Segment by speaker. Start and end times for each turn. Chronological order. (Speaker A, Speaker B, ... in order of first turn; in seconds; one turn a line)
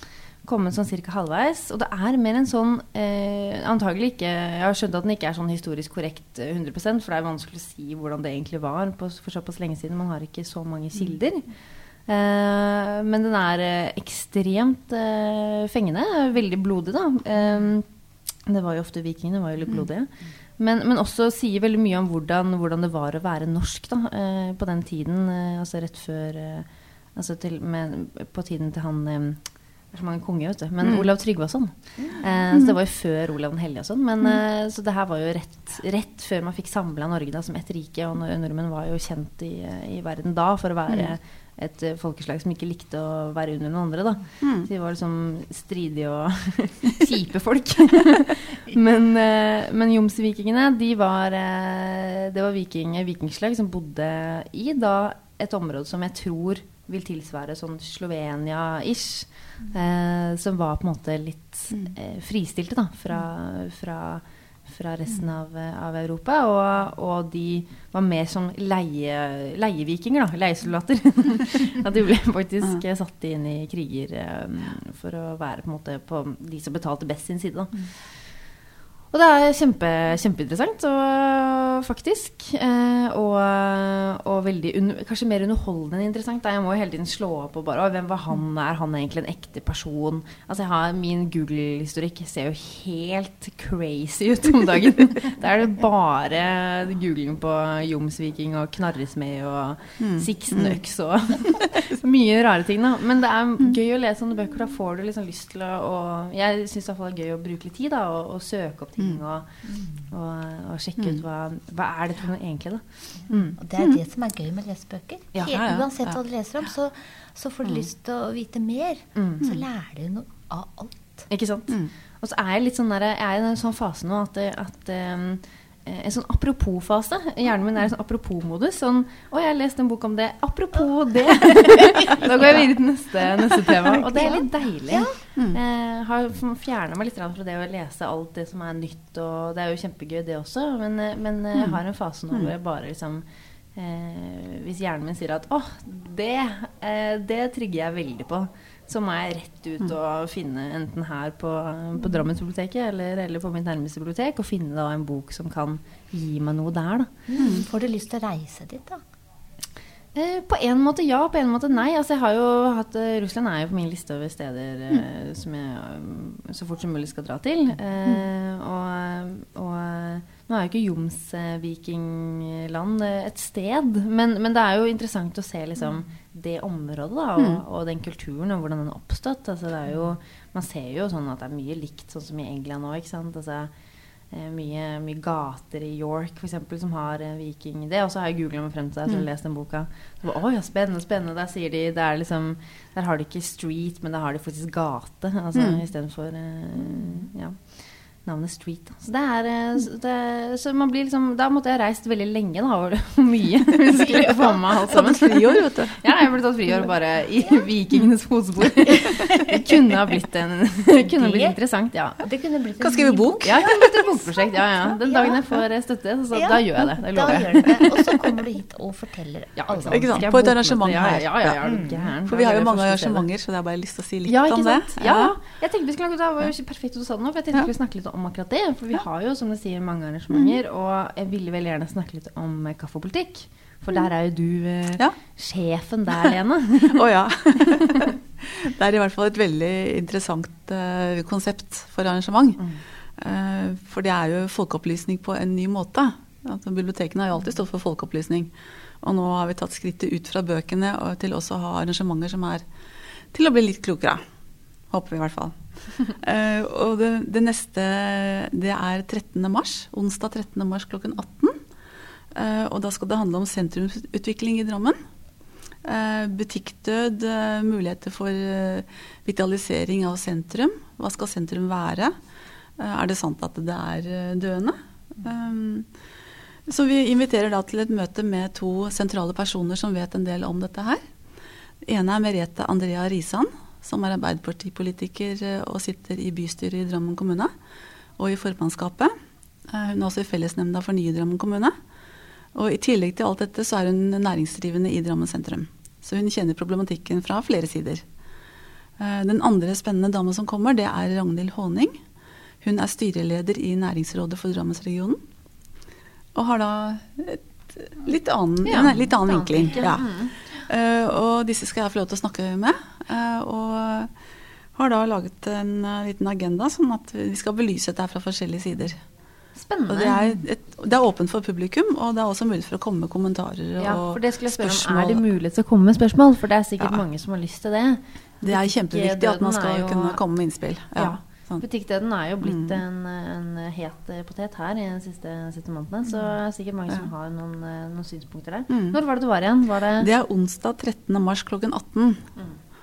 Speaker A: 0.4-78.2
Speaker B: 44.4-44.7
Speaker A: 79.1-109.5
Speaker B: 100.0-100.8
Speaker A: 110.0-113.6
Speaker C: 113.6-121.3
Speaker B: 115.4-116.2
Speaker B: 117.6-117.9
Speaker A: 119.2-119.5
Speaker A: 121.3-157.3
Speaker C: 134.1-135.2
Speaker B: 141.5-141.8
Speaker C: 157.3-159.0
Speaker B: 157.4-157.7
Speaker A: 160.2-183.7
Speaker A: 184.3-212.2
Speaker B: 195.6-195.8
Speaker B: 204.9-206.0
Speaker C: 208.9-209.6
Speaker C: 211.1-211.6
Speaker C: 212.2-215.4
Speaker B: 212.8-213.8
Speaker A: 213.4-218.0
Speaker C: 216.3-220.2
Speaker A: 219.6-223.3
Speaker B: 219.9-225.4
Speaker C: 221.6-222.0
Speaker A: 224.3-237.1
Speaker B: 230.3-230.6
Speaker B: 236.8-242.6
Speaker A: 237.7-238.1
Speaker B: 243.2-252.6
Speaker B: 253.3-254.2
Speaker B: 254.9-261.6
Speaker B: 262.3-265.0
Speaker B: 265.8-272.1
Speaker B: 272.8-275.9
Speaker B: 276.7-281.0
Speaker B: 281.8-287.5
Speaker B: 288.2-289.1
Speaker B: 289.7-291.7
Speaker B: 292.6-298.1
Speaker B: 299.0-302.0
Speaker B: 302.6-305.2
Speaker B: 306.4-314.1
Speaker A: 308.6-310.6
Speaker B: 314.8-319.0
Speaker A: 319.6-320.4
Speaker B: 319.9-325.2
Speaker A: 323.8-330.2
Speaker B: 328.4-331.6
Speaker A: 331.0-340.1
Speaker B: 332.4-332.8
Speaker B: 338.7-339.0
Speaker B: 340.0-342.3